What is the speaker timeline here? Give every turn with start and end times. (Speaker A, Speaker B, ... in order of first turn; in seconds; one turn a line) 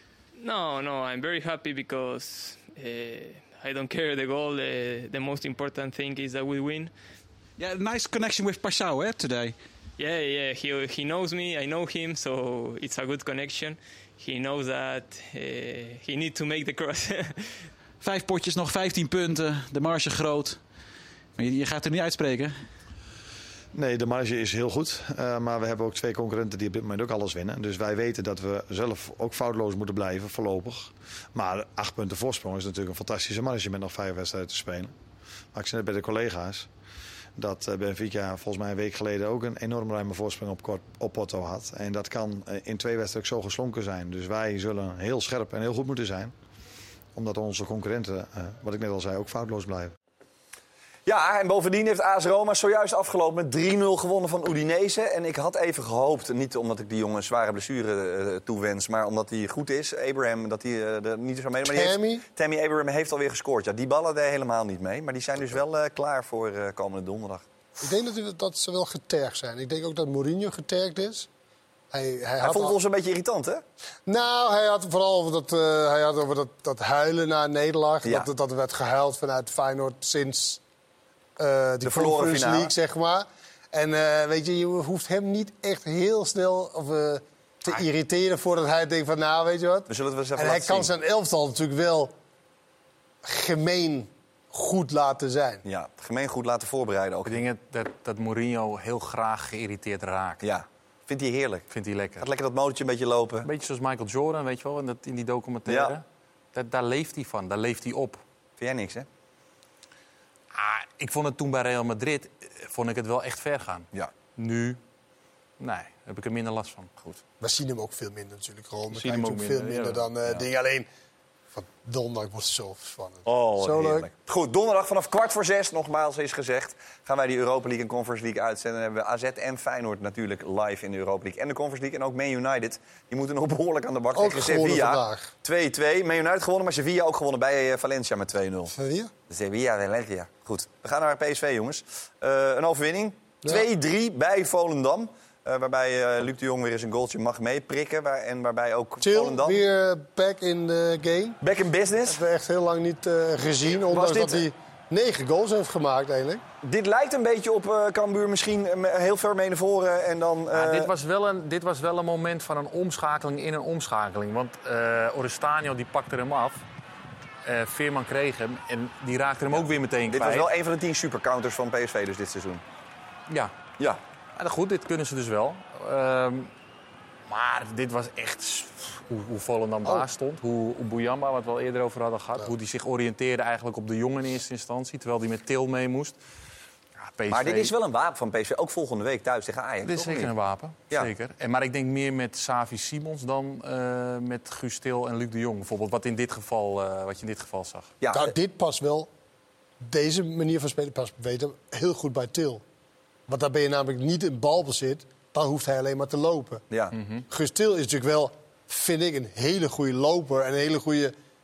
Speaker A: 0.4-6.9
Speaker B: 7.6-9.6
Speaker A: 10.0-17.5
Speaker B: 18.0-20.6
Speaker B: 21.4-22.6
Speaker C: 23.7-34.9
Speaker C: 35.5-36.7
Speaker C: 37.4-46.3
Speaker C: 47.1-49.9
Speaker D: 51.0-67.4
Speaker E: 61.6-62.2
Speaker E: 67.8-71.3
Speaker E: 71.9-72.8
Speaker D: 72.4-73.6
Speaker E: 74.0-80.6
Speaker D: 78.0-78.3
Speaker E: 81.4-92.1
Speaker D: 81.8-82.7
Speaker D: 89.9-90.9
Speaker E: 93.2-95.6
Speaker D: 95.6-97.4
Speaker F: 97.3-100.4
Speaker D: 100.4-101.7
Speaker F: 101.7-102.2
Speaker D: 102.2-103.5
Speaker F: 103.4-108.2
Speaker D: 105.7-105.9
Speaker D: 108.6-109.1
Speaker F: 110.5-114.8
Speaker F: 115.6-117.2
Speaker E: 117.4-120.9
Speaker F: 118.9-120.5
Speaker E: 121.5-124.1
Speaker D: 123.2-138.7
Speaker E: 134.1-135.3
Speaker E: 138.7-139.1
Speaker D: 139.3-149.6
Speaker E: 149.0-151.4
Speaker D: 151.4-152.2
Speaker E: 152.1-156.4
Speaker D: 153.8-154.4
Speaker D: 156.6-160.9
Speaker F: 160.5-166.6
Speaker F: 167.4-170.5
Speaker D: 169.5-172.6
Speaker F: 173.3-173.6
Speaker F: 174.3-176.5
Speaker F: 177.3-186.2
Speaker F: 187.0-187.7
Speaker D: 187.3-190.3
Speaker F: 189.8-197.9
Speaker D: 198.0-198.3
Speaker E: 198.1-199.1
Speaker E: 199.8-202.6
Speaker E: 203.3-206.6
Speaker D: 206.7-206.9
Speaker F: 206.9-207.2
Speaker E: 207.3-211.1